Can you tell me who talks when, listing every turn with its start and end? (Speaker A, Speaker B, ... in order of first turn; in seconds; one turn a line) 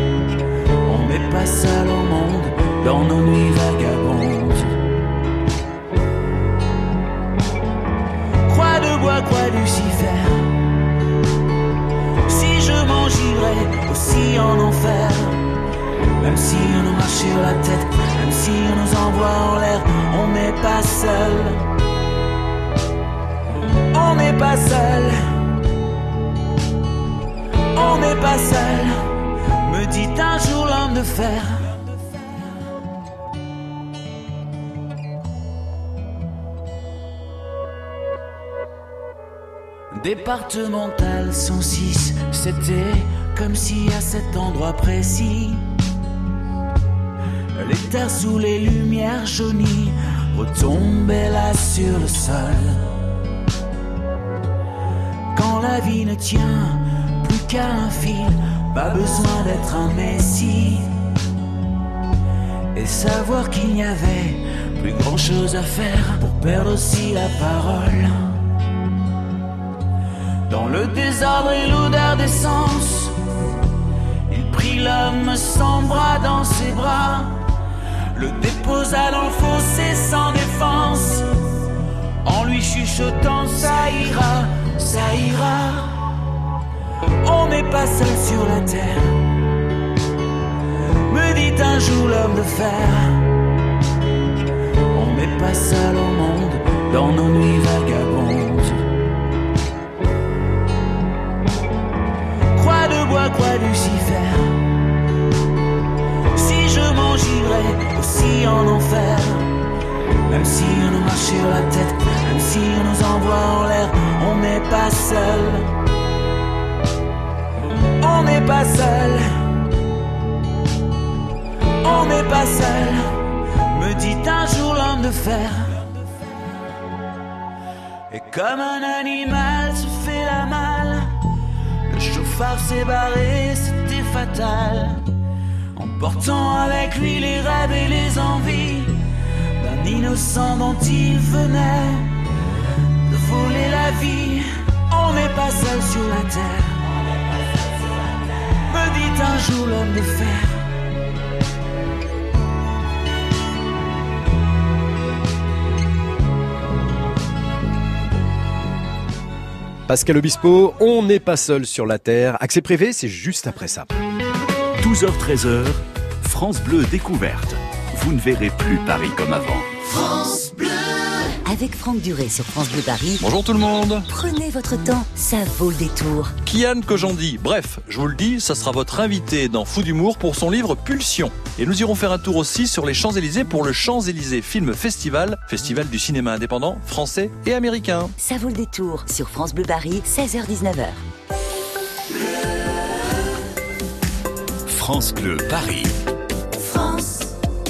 Speaker A: 0.8-4.8
Speaker A: 8.5-10.6
Speaker A: 12.3-15.4
Speaker A: 16.2-21.6
Speaker A: 23.9-25.3
Speaker A: 27.7-29.1
Speaker A: 29.6-31.8
Speaker A: 39.9-45.6
Speaker A: 47.6-52.9
Speaker A: 55.3-60.9
Speaker A: 62.8-68.3
Speaker A: 70.5-73.2
Speaker A: 74.3-77.4
Speaker A: 78.2-81.3
Speaker A: 82.2-86.0
Speaker A: 87.2-89.3
Speaker A: 91.1-93.3
Speaker A: 94.9-98.8
Speaker A: 102.5-104.7
Speaker A: 106.3-109.5
Speaker A: 110.3-115.7
Speaker A: 118.0-119.3
Speaker A: 121.8-125.9
Speaker A: 128.1-131.1
Speaker A: 131.9-135.1
Speaker A: 135.8-139.0
Speaker A: 139.6-142.2
Speaker A: 143.1-146.9
Speaker A: 148.7-150.7
Speaker B: 159.9-163.9
Speaker C: 164.8-169.7
Speaker D: 169.8-173.2
Speaker E: 173.2-174.1
Speaker D: 174.1-176.3
Speaker E: 176.4-188.1
Speaker D: 188.2-191.0
Speaker C: 194.7-195.9
Speaker D: 196.6-197.3